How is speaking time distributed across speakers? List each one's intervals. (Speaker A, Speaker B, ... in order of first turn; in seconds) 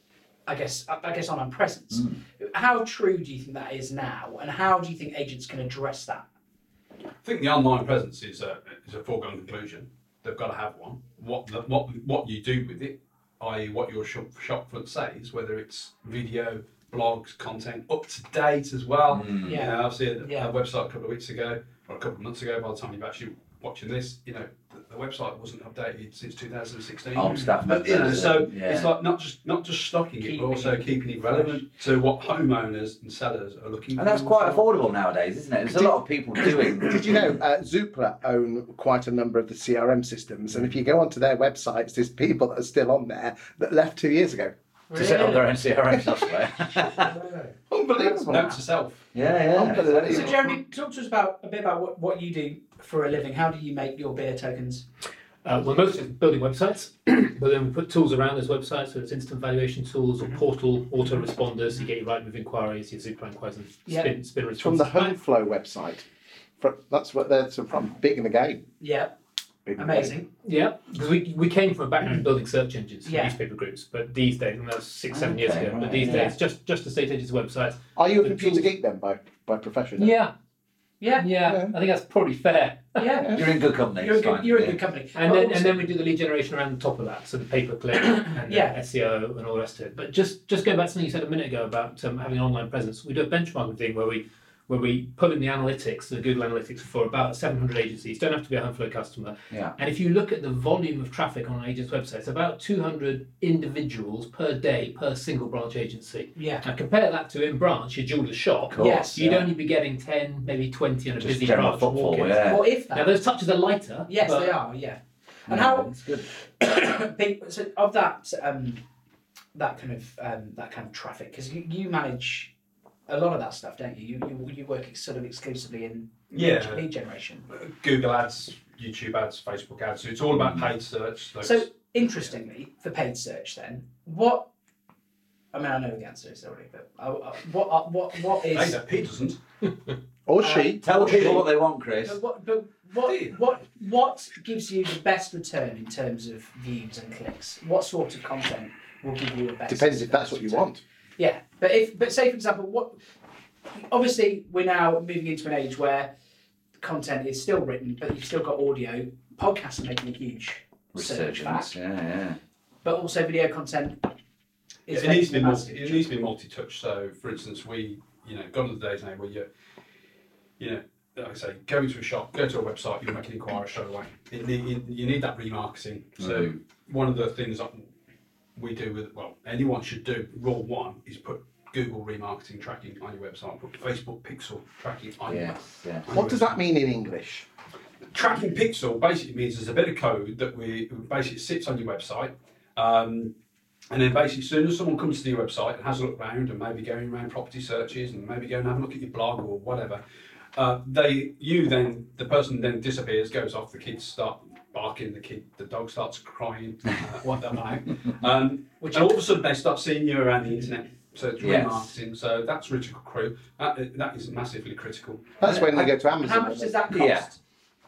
Speaker A: 0.5-6.2, 19.4-20.5, 27.3-27.5, 30.2-31.6, 44.9-45.5, 47.1-47.5, 48.0-48.6, 50.0-54.9, 63.9-64.1, 68.8-69.1, 69.8-70.3, 73.0-73.4, 76.0-76.3, 81.0-81.3, 83.0-85.8, 88.4-88.8, 106.3-106.7, 108.8-109.2, 112.4-113.2, 114.1-118.8, 119.5-122.5, 123.1-127.5, 131.4-134.5, 135.5-138.8, 140.4-153.0, 153.7-156.1, 156.8-161.7, 162.8-164.0, 164.9-166.1, 208.8-209.2, 215.4-217.4
Speaker B: 7.2-34.6, 48.3-49.0, 126.3-126.8, 127.5-131.7, 138.4-139.4, 143.0-143.3, 164.9-169.5, 170.6-177.9, 178.5-186.6, 188.1-193.3, 193.9-200.0, 200.6-215.4
Speaker C: 19.1-19.6, 27.1-28.9, 33.9-37.2, 44.9-47.1, 49.1-50.3, 75.1-76.3, 83.3-84.8, 108.7-109.5, 111.2-112.6, 115.5-116.3, 130.4-130.7, 140.8-142.2, 160.9-162.4, 176.2-176.5, 185.3-186.1, 211.4-211.9, 216.9-217.3
Speaker D: 36.8-44.5, 47.7-48.5, 49.5-50.5, 64.6-66.0, 66.6-68.7, 69.7-70.1, 78.0-80.1, 81.4-81.7, 140.3-141.3, 149.7-150.8, 186.1-187.4, 215.4-216.8
Speaker E: 55.4-65.1, 70.4-78.7, 80.0-80.3, 81.1-83.2, 85.1-114.5